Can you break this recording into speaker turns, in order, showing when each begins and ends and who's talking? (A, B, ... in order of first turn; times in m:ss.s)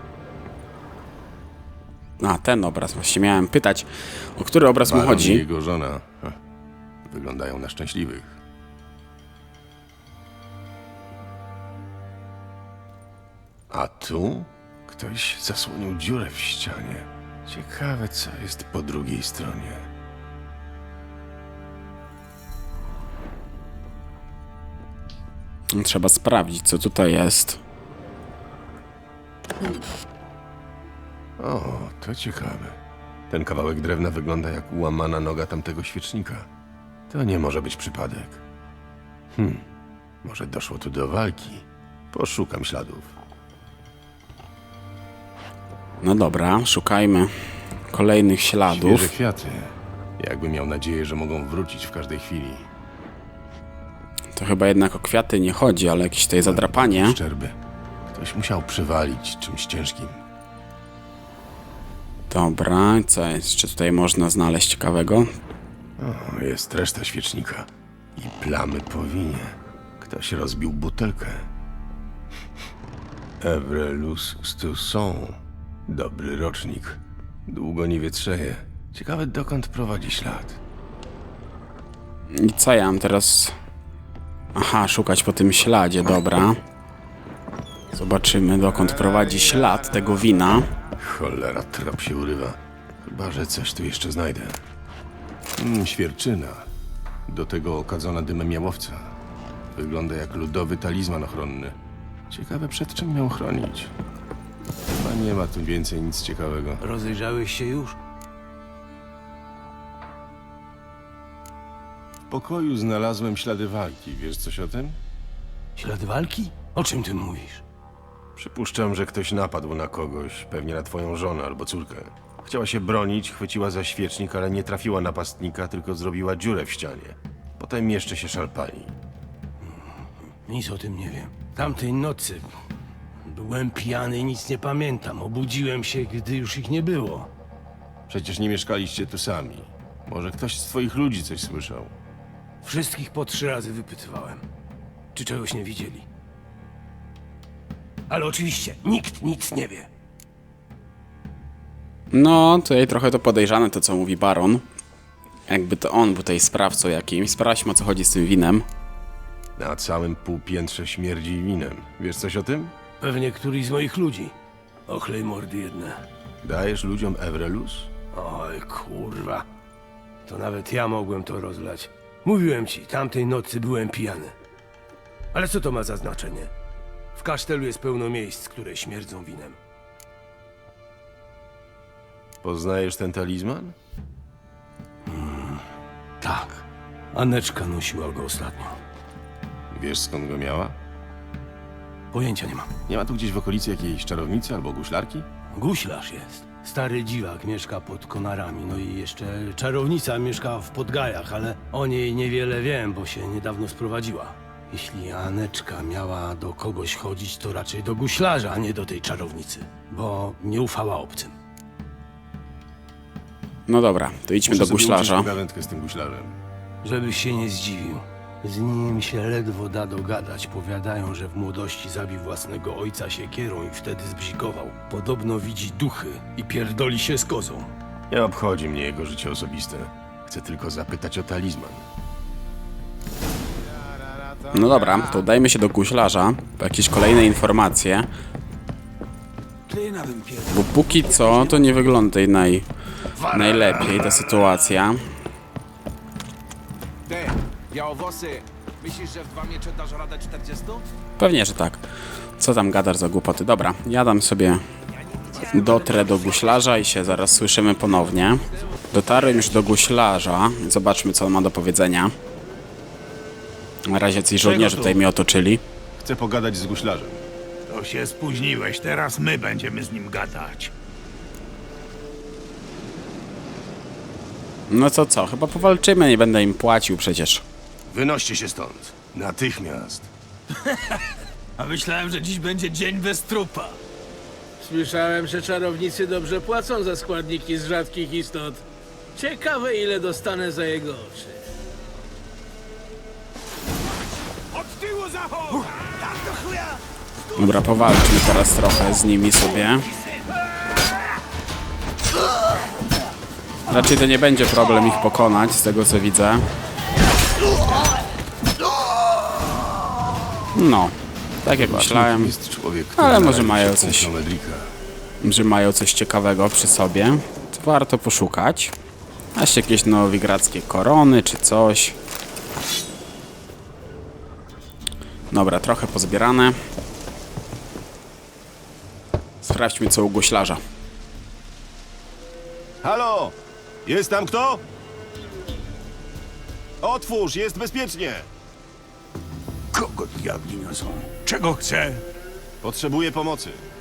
0:02.2-0:05.4 A
0:04.8-0:06.4 B
0:07.0-0:08.4 B
0:13.7-0:19.9 B
0:25.7-0:27.6 A
0:31.4-0:32.8 B
0:33.3-0:36.5 B
0:37.1-0:38.4 B
0:39.3-0:39.6 B
0:40.2-0:43.1 B
0:46.0-0:47.3 A
0:47.9-0:49.1 A
0:48.7-0:52.7 B
0:54.3-0:57.2 A
0:56.4-0:57.6 B
0:58.1-1:00.2 B
1:02.3-1:05.3 A
1:06.0-1:11.5 B
1:13.4-1:20.6 B
1:22.3-1:23.5 A
1:24.5-1:26.6 A
1:27.9-1:30.7 A
1:31.0-1:34.6 B
1:35.6-1:36.7 B
1:37.3-1:39.1 B
1:39.7-1:41.8 B
1:42.3-1:43.9 B
1:44.9-1:46.8 B
1:46.8-1:48.0 C
1:52.3-1:55.0 B
1:55.8-1:57.6 C
1:58.4-2:08.9 B
2:10.4-2:12.5 C
2:13.2-2:17.3 C
2:18.1-2:22.0 B
2:22.6-2:24.4 C
2:25.1-2:26.0 C
2:28.1-2:29.9 C
2:32.1-2:34.6 A
2:35.5-2:38.6 A
2:39.6-2:42.7 B
2:43.0-2:44.3 C
2:44.9-2:46.0 C
2:46.4-2:47.9 B
2:48.1-2:49.5 C
2:50.2-2:54.3 C
2:55.3-2:56.5 C
2:57.1-2:59.6 C
3:02.4-3:03.8 B
3:05.1-3:05.6 C
3:06.2-3:08.8 C
3:09.7-3:10.8 B
3:12.1-3:12.7 C
3:12.9-3:15.3 B
3:15.5-3:31.3 C
3:33.7-3:35.3 A
3:34.4-3:36.4 B
3:36.8-3:47.7 C
3:48.1-3:51.8 B
3:53.8-3:55.0 D
3:54.5-3:58.1 A
3:59.7-4:01.8 E
4:00.5-4:02.6 A
4:03.2-4:04.4 E
4:03.3-4:05.0 A
4:07.1-4:10.8 D
4:11.2-4:11.8 A
4:12.4-4:14.6 A
4:15.4-4:22.1 A
4:15.6-4:16.0 E
4:23.8-4:25.6 A
4:24.4-4:25.0 E
4:26.0-4:27.2 B
4:27.7-4:30.7 E
4:34.7-4:37.4 A
4:37.9-4:40.1 B
4:40.6-4:43.8 E
4:44.6-4:44.9 C
4:44.7-4:46.2 F
4:46.4-4:46.9 C
4:47.7-4:48.6 F
4:49.2-4:51.4 F
4:54.5-4:56.8 E
4:57.4-4:59.9 A
4:57.4-4:57.8 E
5:03.7-5:06.4 A
5:10.5-5:12.3 A
5:11.5-5:14.7 B
5:13.0-5:14.1 A
5:15.2-5:18.7 A
5:19.3-5:22.0 A
5:25.3-5:26.6 A
5:29.4-5:30.6 A
5:32.8-5:34.6 B
5:36.8-5:38.3 B
5:39.7-5:42.0 E
5:42.6-5:43.6 B